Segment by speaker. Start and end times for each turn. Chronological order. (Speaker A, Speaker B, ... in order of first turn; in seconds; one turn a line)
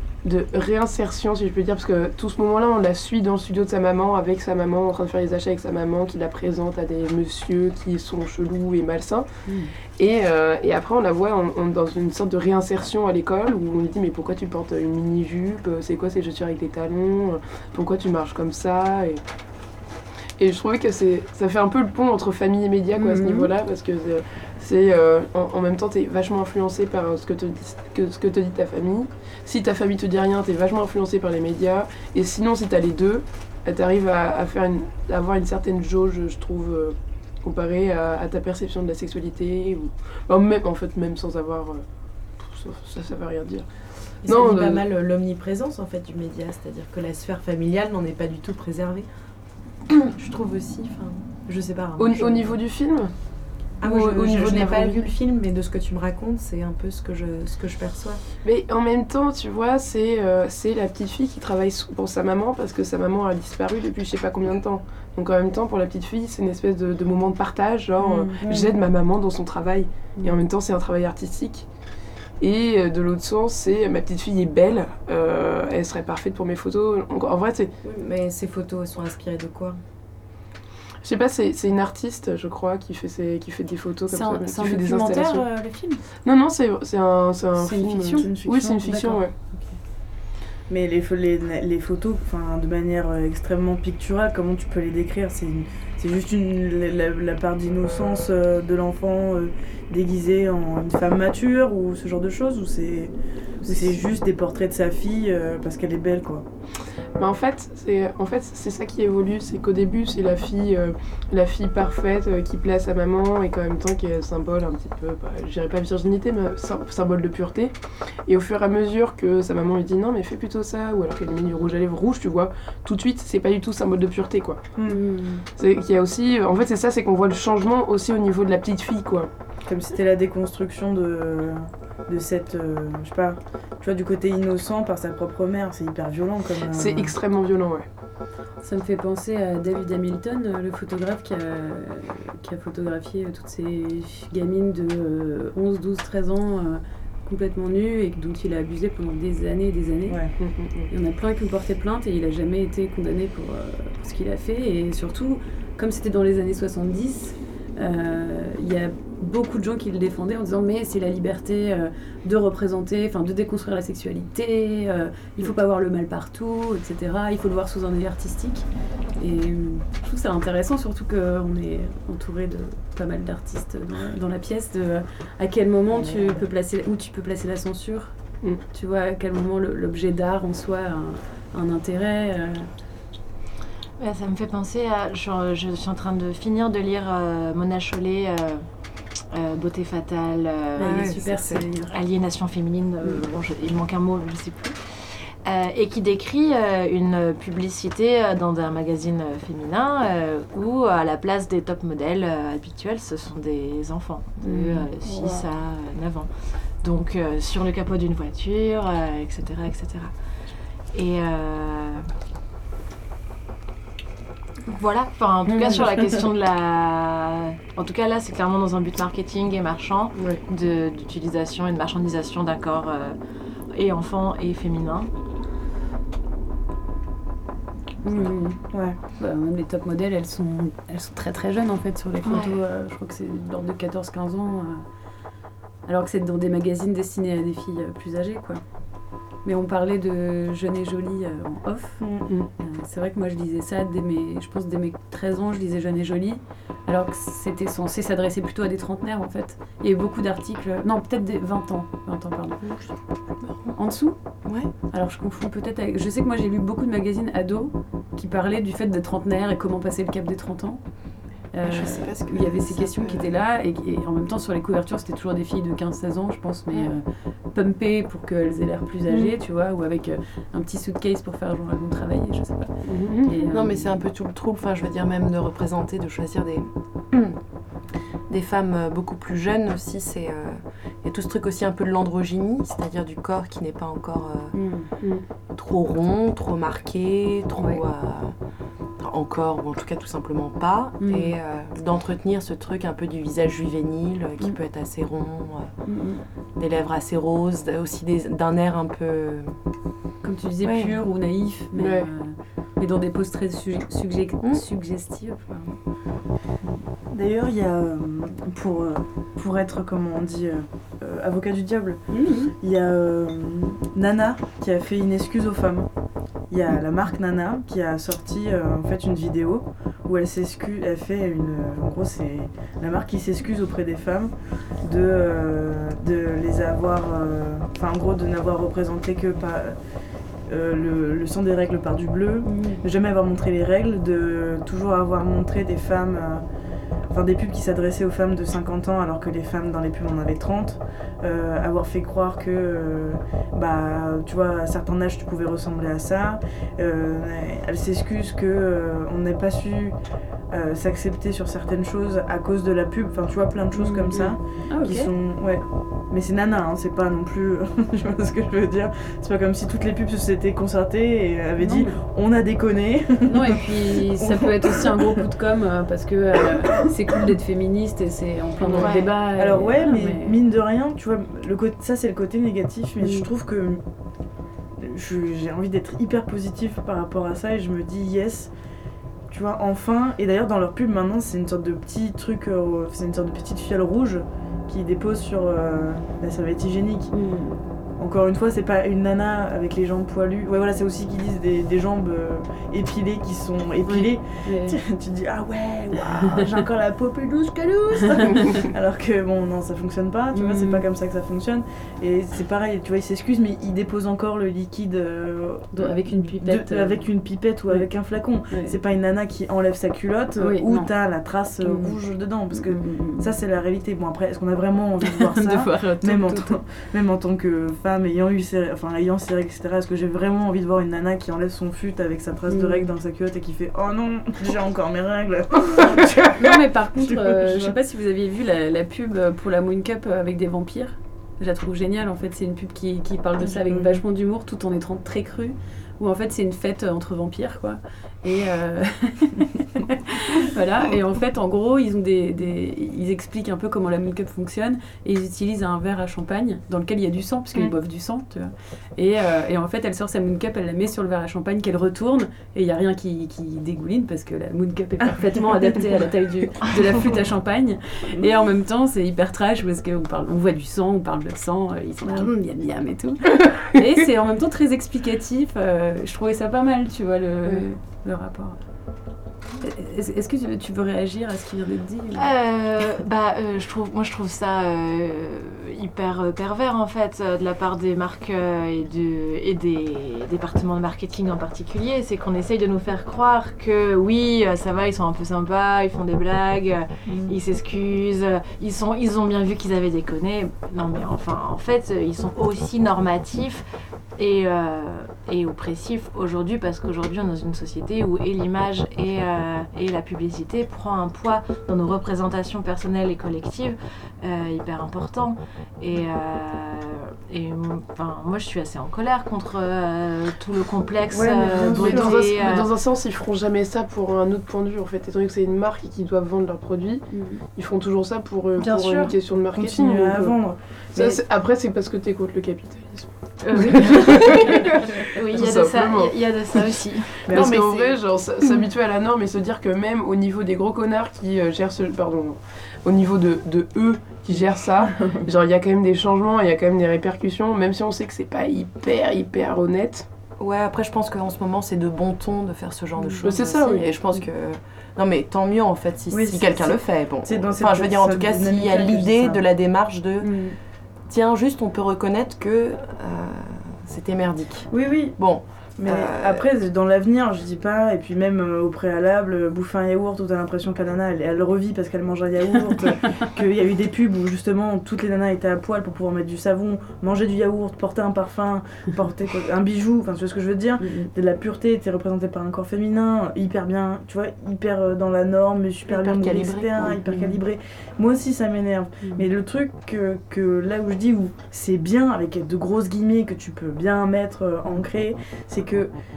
Speaker A: 0.2-9.3
Speaker B: 9.4-9.7
Speaker A: 9.9-19.2
Speaker A: 20.4-41.8
Speaker B: 22.9-23.5
Speaker A: 42.4-43.7
Speaker A: 44.2-44.8
Speaker C: 44.2-49.1
Speaker C: 49.9-52.5
Speaker A: 52.0-53.1
Speaker C: 53.8-58.2
Speaker A: 53.8-55.1
Speaker A: 58.4-71.7
Speaker B: 68.3-68.8
Speaker A: 72.4-77.7
Speaker C: 77.8-79.8
Speaker A: 81.0-85.5
Speaker B: 84.1-86.0
Speaker A: 86.1-89.3
Speaker B: 87.6-88.3
Speaker D: 88.1-89.2
Speaker B: 88.8-89.8
Speaker D: 90.7-106.4
Speaker B: 103.6-103.9
Speaker A: 107.2-124.7
Speaker B: 124.9-125.4
Speaker A: 125.5-129.3
Speaker D: 129.7-137.1
Speaker A: 136.7-137.9
Speaker B: 138.6-150.2
Speaker D: 150.1-150.3
Speaker A: 150.4-150.9
Speaker B: 150.9-178.2
Speaker B: 178.7-182.7
Speaker E: 184.0-188.7
Speaker E: 189.3-191.3
Speaker B: 190.8-191.9
Speaker C: 190.8-191.7
Speaker E: 191.9-210.1
Speaker E: 210.9-212.1
Speaker E: 214.7-223.2
Speaker B: 215.4-216.2
Speaker A: 220.2-220.4
Speaker E: 223.7-225.1
Speaker B: 228.0-234.8
Speaker D: 228.7-229.0
Speaker E: 232.3-232.5
Speaker B: 235.8-238.6
Speaker B: 239.4-252.6
Speaker D: 242.0-242.2
Speaker C: 252.6-253.8
Speaker B: 253.8-260.9
Speaker C: 254.4-254.7
Speaker B: 261.5-273.9
Speaker C: 261.6-263.3
Speaker A: 269.1-269.3
Speaker A: 272.8-273.4
Speaker C: 273.4-277.4
Speaker C: 278.3-284.6
Speaker B: 284.5-284.9
Speaker C: 285.5-288.4
Speaker B: 287.6-287.8
Speaker C: 289.0-295.7
Speaker B: 291.0-291.4
Speaker B: 295.8-296.2
Speaker C: 296.6-299.6
Speaker B: 300.2-305.8
Speaker C: 300.6-301.0
Speaker A: 301.8-302.1
Speaker D: 307.1-312.0
Speaker B: 312.1-312.5
Speaker D: 312.6-315.9
Speaker D: 316.5-329.8
Speaker D: 330.5-336.4
Speaker B: 332.4-332.8
Speaker D: 337.1-350.0
Speaker D: 350.5-365.0
Speaker B: 353.7-355.1
Speaker B: 361.6-362.0
Speaker B: 363.2-370.4
Speaker E: 368.8-369.1
Speaker D: 369.3-373.8
Speaker B: 373.0-373.3
Speaker D: 374.7-378.5
Speaker D: 379.3-387.1
Speaker B: 387.1-387.6
Speaker D: 388.0-426.4
Speaker B: 393.8-394.8
Speaker B: 398.2-398.6
Speaker B: 400.3-400.8
Speaker B: 405.7-407.1
Speaker B: 408.5-408.7
Speaker B: 410.4-410.9
Speaker B: 411.6-411.9
Speaker B: 412.5-413.3
Speaker B: 415.0-416.6
Speaker B: 422.5-422.9
Speaker B: 426.3-468.6
Speaker D: 426.9-427.8
Speaker D: 433.4-434.0
Speaker B: 469.6-472.3
Speaker E: 472.1-493.6
Speaker D: 487.1-487.4
Speaker E: 494.2-512.7
Speaker D: 511.1-512.2
Speaker A: 511.6-520.4
Speaker B: 517.1-517.4
Speaker E: 518.6-519.1
Speaker D: 519.5-521.1
Speaker A: 520.9-540.1
Speaker E: 523.4-528.0
Speaker D: 527.2-527.6
Speaker D: 535.0-535.2
Speaker C: 540.4-550.3
Speaker A: 543.2-543.9
Speaker D: 546.1-549.4
Speaker B: 550.2-550.6
Speaker C: 551.1-556.5
Speaker D: 554.7-555.2
Speaker D: 555.8-585.9
Speaker B: 570.8-571.1
Speaker C: 575.9-577.2